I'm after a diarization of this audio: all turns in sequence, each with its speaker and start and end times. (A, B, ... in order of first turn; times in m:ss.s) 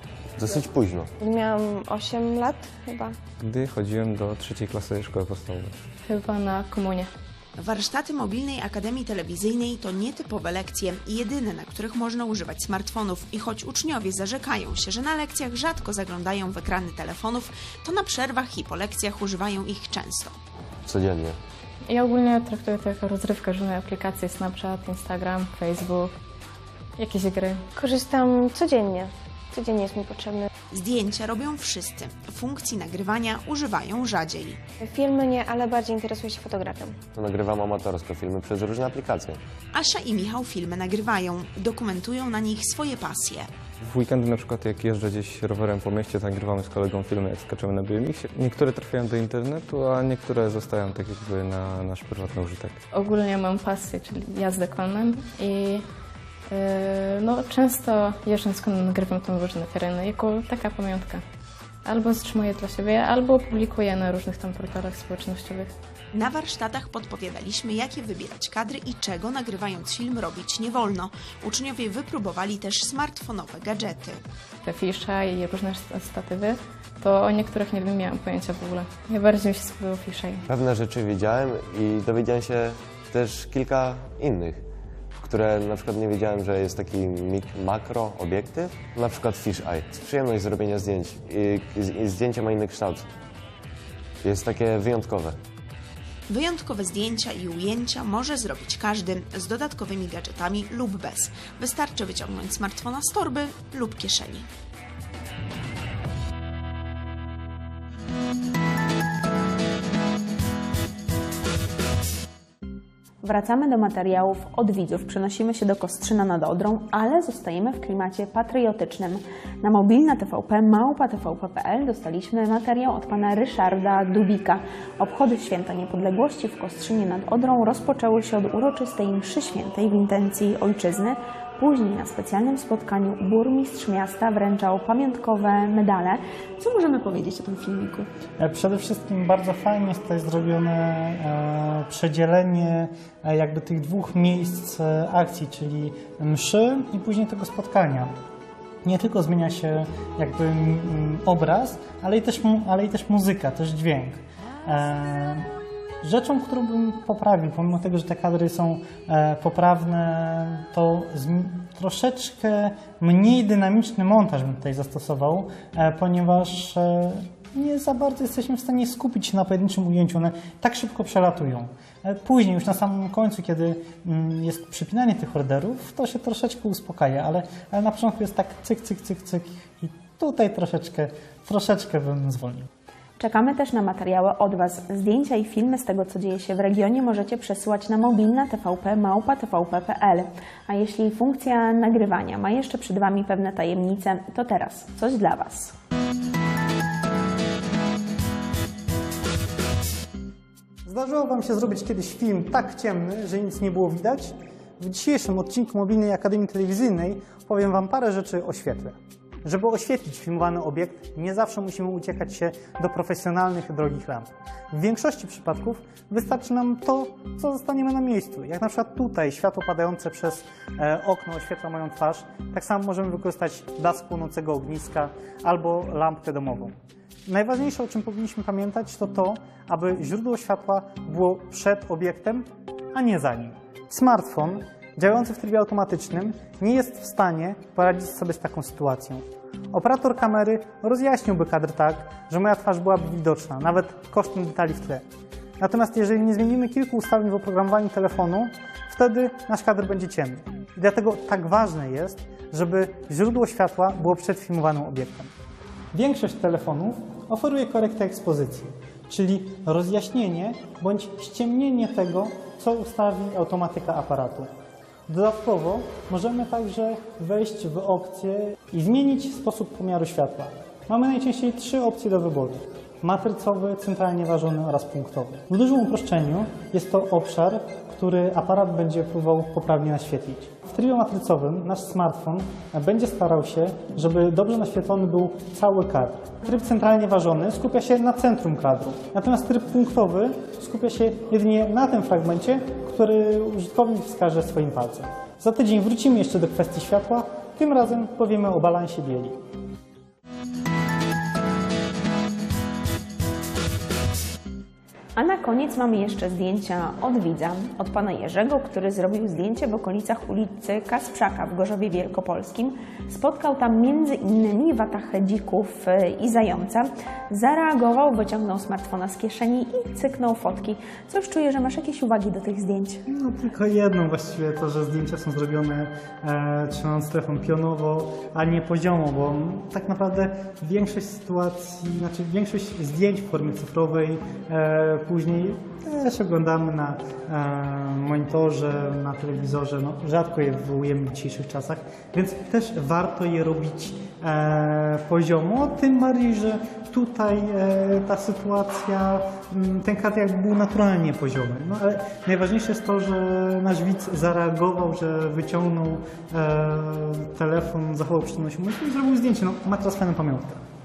0:00.4-0:01.1 A
0:01.2-0:03.2 B
0:03.4-0:05.7 C
0:06.0-0:07.1 D
0:07.6-0:20.4 E
0:20.9-0:21.4 A
0:21.9-0:26.1 D
0:27.0-0:27.6 D
0:27.8-0:30.5 B
0:30.7-0:34.6 E
0:34.8-0:37.0 B
0:37.2-0:39.4 A
0:39.7-0:43.5 E
0:43.8-0:52.8 C
0:52.9-0:55.8 D
0:56.5-1:01.2 D
1:01.8-1:05.7 D
1:06.1-1:14.2 E
1:14.6-1:20.4 D
1:20.5-1:24.6 A
1:25.2-1:33.1 A
1:34.2-1:35.4 A
1:36.3-1:44.5 E
1:53.2-2:18.1 F
2:18.4-2:28.1 G
2:28.8-2:35.5 G
2:36.0-3:02.7 G
3:03.2-3:15.7 F
3:20.8-3:46.8 G
3:47.3-4:05.0 G
4:05.6-4:15.3 G
4:15.9-4:24.5 G
4:25.1-4:59.4 G
5:05.2-5:23.0 F
5:23.1-6:00.6 G